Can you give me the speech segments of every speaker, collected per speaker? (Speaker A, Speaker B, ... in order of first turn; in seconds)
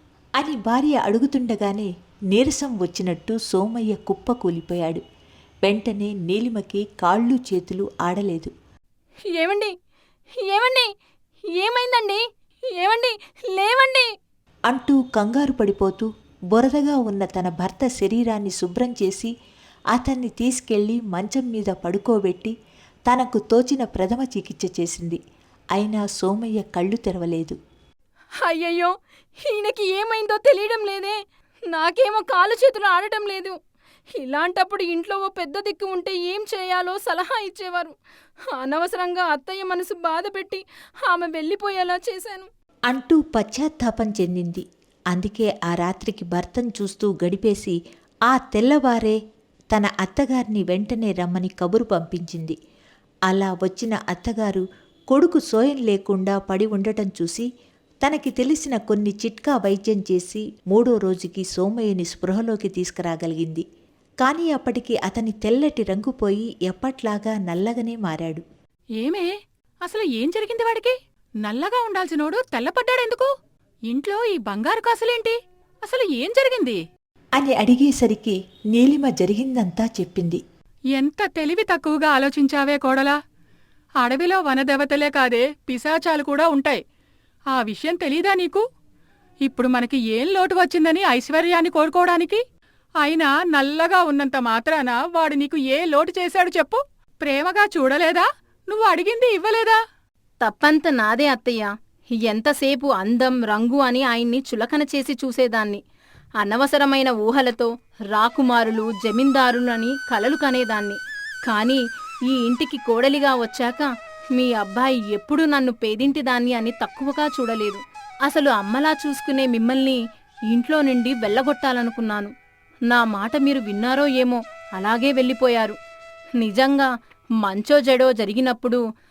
Speaker A: 0.4-5.0, 5.7-8.5, 14.7-19.3, 19.9-22.5, 23.1-25.2, 25.8-27.6, 42.9-47.8, 48.3-49.2, 49.7-52.5, 53.3-57.5, 58.0-63.6, 64.2-68.4, 77.4-80.4
Speaker B: 9.4-9.7, 10.5-10.9, 11.6-12.2, 12.8-14.1, 28.5-28.9, 29.5-31.2, 31.7-33.5, 34.2-38.0, 38.6-42.5, 100.4-101.7, 102.2-105.8, 106.4-111.0, 111.5-111.8, 112.3-120.0, 120.5-122.3, 122.9-125.7, 126.4-126.9, 127.4-128.8
Speaker C: 69.0-69.3, 69.8-73.3, 73.9-76.8, 81.0-83.2, 84.0-86.8, 87.5-88.6, 89.5-92.4, 93.0-99.8